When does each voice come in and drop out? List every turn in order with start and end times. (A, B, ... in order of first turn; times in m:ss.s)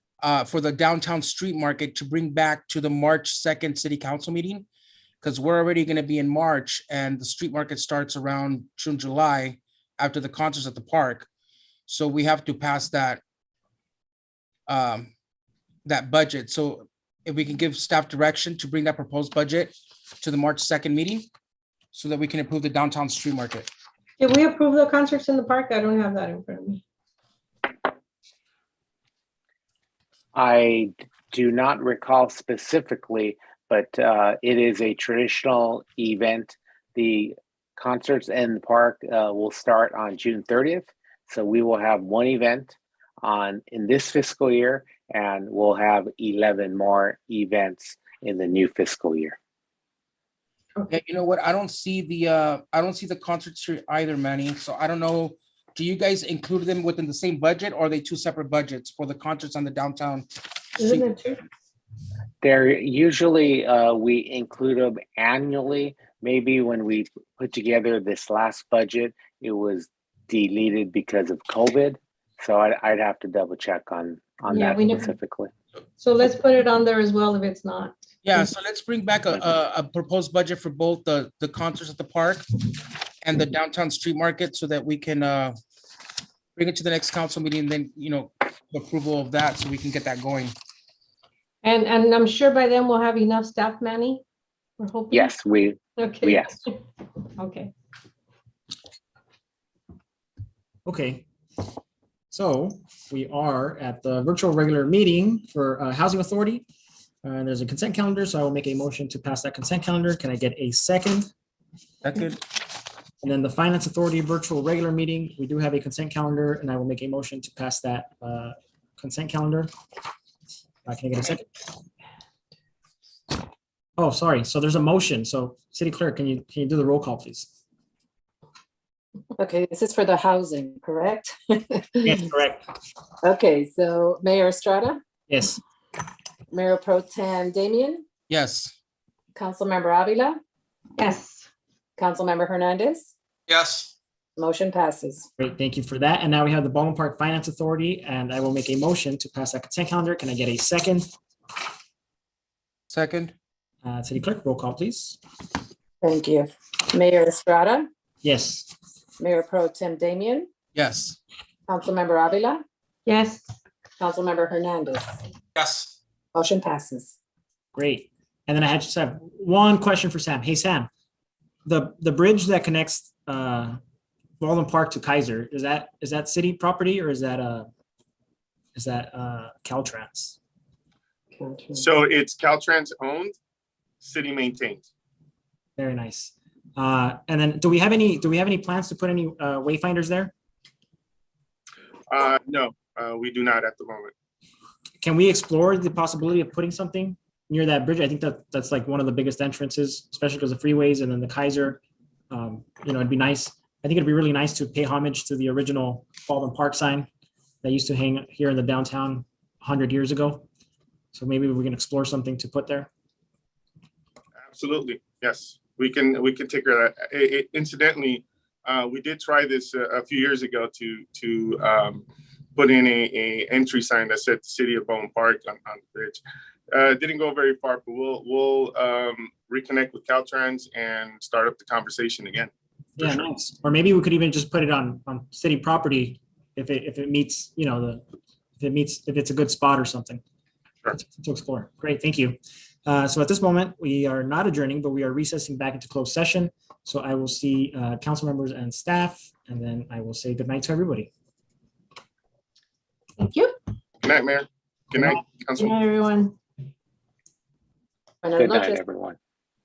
0:00.2-0:04.7 A
0:05.2-0:11.3 A
0:11.9-0:13.2 A
0:14.7-0:15.1 A
0:15.9-0:21.3 A
0:21.9-0:23.7 A
0:24.2-0:26.8 B
0:30.4-0:49.4 C
0:50.9-1:00.3 A
1:00.8-1:01.1 A
1:00.8-1:01.4 B
1:02.4-1:15.5 C
1:14.5-1:15.1 B
1:16.0-1:18.4 B
1:18.2-1:22.4 A
1:23.2-1:25.6 A
1:26.6-1:30.5 A
1:31.6-1:34.2 B
1:34.8-1:35.3 B
1:35.1-1:36.6 C
1:36.0-1:36.7 B
1:37.4-1:37.7 B
1:40.8-1:41.3 D
1:42.3-1:46.7 D
1:47.2-1:51.3 D
1:52.0-1:52.4 A
1:53.2-1:59.7 D
2:00.9-2:01.6 D
2:04.0-2:07.5 D
2:09.4-2:12.2 E
2:12.0-2:12.7 D
2:13.2-2:15.0 E
2:15.3-2:15.6 D
2:16.5-2:18.0 E
2:18.3-2:18.7 A
2:19.4-2:20.4 E
2:21.0-2:21.5 B
2:22.0-2:23.1 E
2:23.5-2:23.9 A
2:24.4-2:25.3 E
2:25.4-2:31.1 D
2:32.9-2:33.3 A
2:33.8-2:35.2 D
2:36.0-2:37.9 E
2:38.2-2:38.7 D
2:39.2-2:40.5 E
2:40.8-2:41.2 A
2:41.7-2:42.6 E
2:43.1-2:43.5 B
2:44.0-2:45.2 E
2:45.6-2:45.9 A
2:46.3-2:47.1 E
2:47.7-2:50.9 D
2:51.7-2:53.8 D
2:54.4-2:57.7 D
2:58.8-3:00.4 D
3:01.4-3:01.9 E
3:01.8-3:03.3 F
3:04.0-3:04.9 F
3:05.8-3:10.3 D
3:12.1-3:14.1 F
3:15.0-3:27.1 D
3:27.6-3:30.5 D
3:31.1-3:32.9 D
3:34.4-3:42.0 F
3:42.6-3:53.3 F
3:53.0-3:58.0 D
3:58.6-4:00.2 D
4:01.0-4:11.1 D
4:13.2-4:13.5 B
4:14.0-4:15.8 F
4:15.6-4:16.4 B
4:18.2-4:18.8 E
4:18.4-4:19.2 C